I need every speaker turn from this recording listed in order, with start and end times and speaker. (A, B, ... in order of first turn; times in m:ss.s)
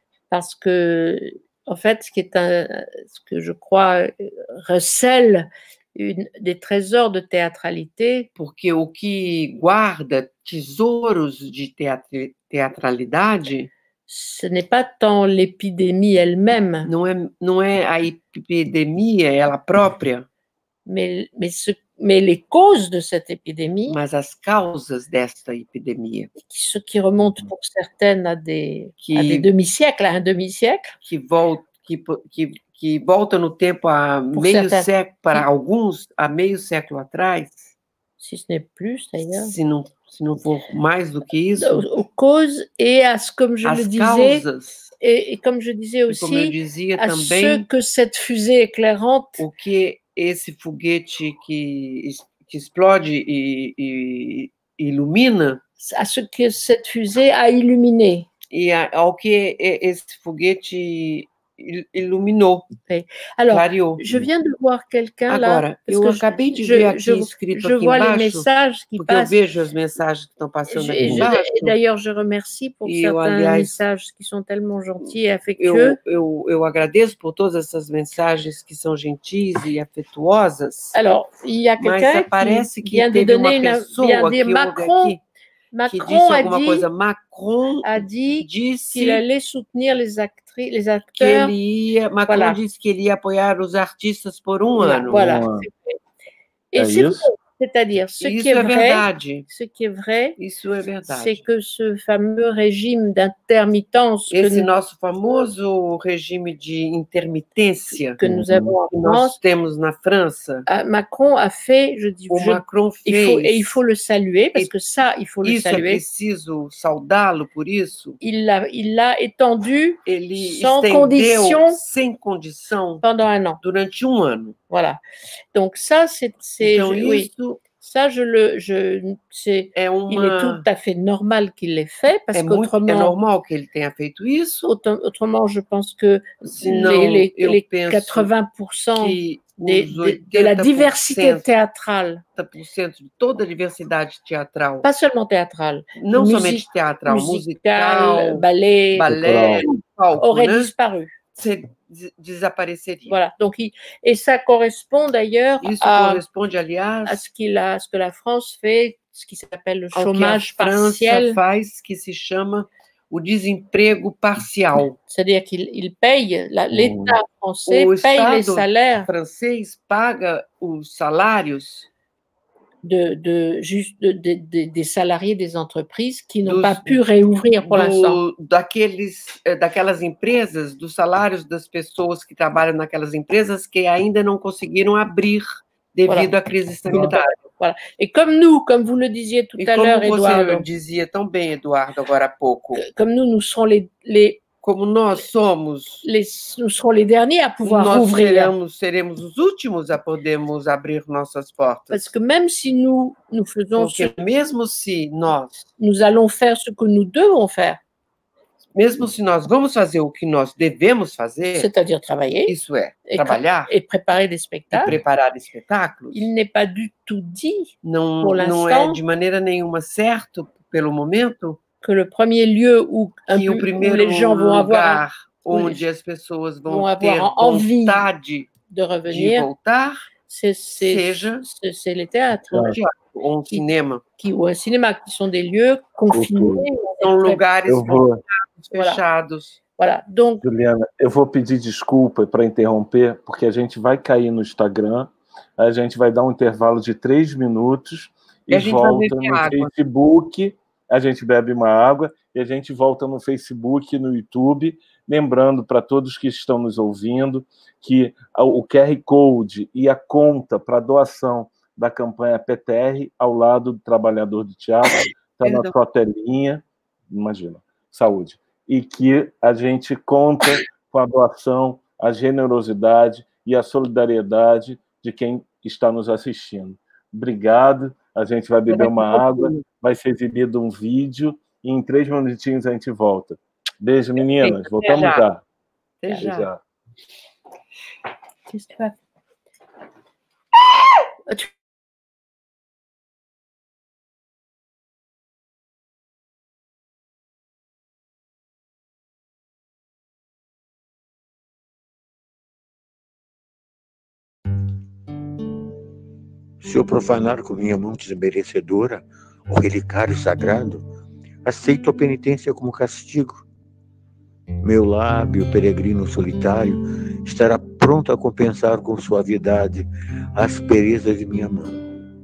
0:00.3-0:08.3 A
0:08.4-0:13.7 B
0:14.1-0:16.9 A
0:16.8-0:20.3 B
0:20.8-0:24.0 A
0:23.9-0:26.3 B
0:26.4-0:30.9 A
0:29.0-0:29.5 B
0:31.0-0:37.7 B
0:34.3-0:35.4 A
0:38.2-0:39.5 A
0:39.4-0:41.8 B
0:41.6-0:44.4 A
0:43.6-0:44.9 B
0:45.0-0:49.4 A
0:46.1-0:47.6 B
0:49.4-0:55.6 B
0:55.8-0:58.3 A
0:58.5-1:02.7 B
1:02.9-1:09.3 A
1:03.5-1:04.0 B
1:05.3-1:11.8 B
1:10.7-1:16.0 A
1:12.8-1:13.8 B
1:15.6-1:21.0 B
1:20.9-1:25.1 A
1:21.8-1:25.2 B
1:25.7-1:26.8 A
1:25.9-1:29.2 B
1:27.8-1:31.5 A
1:31.2-1:35.3 B
1:32.3-1:32.6 A
1:34.8-1:36.0 A
1:35.1-1:35.6 C
1:36.7-1:40.4 A
1:36.8-1:37.2 C
1:38.2-1:39.4 B
1:40.4-1:41.4 B
1:41.1-1:44.7 A
1:44.3-1:48.2 B
1:48.2-1:49.4 A
1:48.2-1:48.7 C
1:48.9-1:50.6 B
1:50.7-1:56.0 A
1:52.3-1:53.8 B
1:55.4-1:58.2 B
1:58.2-2:01.8 A
2:00.0-2:03.0 B
2:03.0-2:03.6 A
2:03.6-2:04.6 B
2:04.7-2:05.0 A
2:05.5-2:13.1 A
2:06.6-2:07.6 B
2:09.7-2:10.6 B
2:12.3-2:14.6 B
2:14.6-2:22.2 A
2:16.4-2:18.3 B
2:19.0-2:21.5 B
2:22.4-2:24.8 B
2:24.8-2:29.1 A
2:26.0-2:30.7 B
2:29.0-2:29.7 C
2:30.2-2:31.1 A
2:31.3-2:33.2 B
2:33.1-2:36.2 A
2:35.6-2:37.2 B
2:37.0-2:41.4 A
2:39.9-2:45.0 B
2:45.1-2:49.1 A
2:46.7-2:47.2 C
2:47.6-2:51.9 B
2:52.8-2:58.2 A
2:56.4-2:57.0 B
2:57.6-3:07.3 B
3:06.1-3:06.3 A
3:06.9-3:10.6 A
3:09.6-3:12.8 B
3:12.8-3:14.4 A
3:14.6-3:16.0 B
3:16.0-3:18.5 A
3:17.6-3:22.1 B
3:21.9-3:24.1 A
3:23.8-3:25.6 B
3:25.8-3:27.8 A
3:28.7-3:31.7 B
3:31.5-3:32.5 A
3:32.4-3:33.7 B
3:33.1-3:35.0 A
3:34.7-3:36.3 B
3:36.1-3:39.0 A
3:37.8-3:41.6 B
3:41.8-3:45.8 A
3:43.3-3:48.5 B
3:46.7-3:48.0 A
3:48.6-3:49.5 A
3:49.1-3:50.1 B
3:50.3-3:52.7 A
3:50.8-3:51.4 B
3:52.6-3:54.0 B
3:54.2-3:57.4 A
3:56.1-3:56.6 C
3:57.0-3:59.6 B
3:57.7-3:58.2 C
3:58.6-3:59.0 A
3:59.8-4:00.4 A
4:00.4-4:45.4 C
4:08.5-4:09.7 B
4:25.4-4:25.7 B
4:38.7-4:39.6 B
4:44.4-4:45.2 B
4:46.0-4:46.5 B
4:46.2-4:46.6 C
4:48.5-4:49.0 A
5:06.6-5:10.8 D
5:11.4-5:13.4 D
5:14.6-5:21.8 D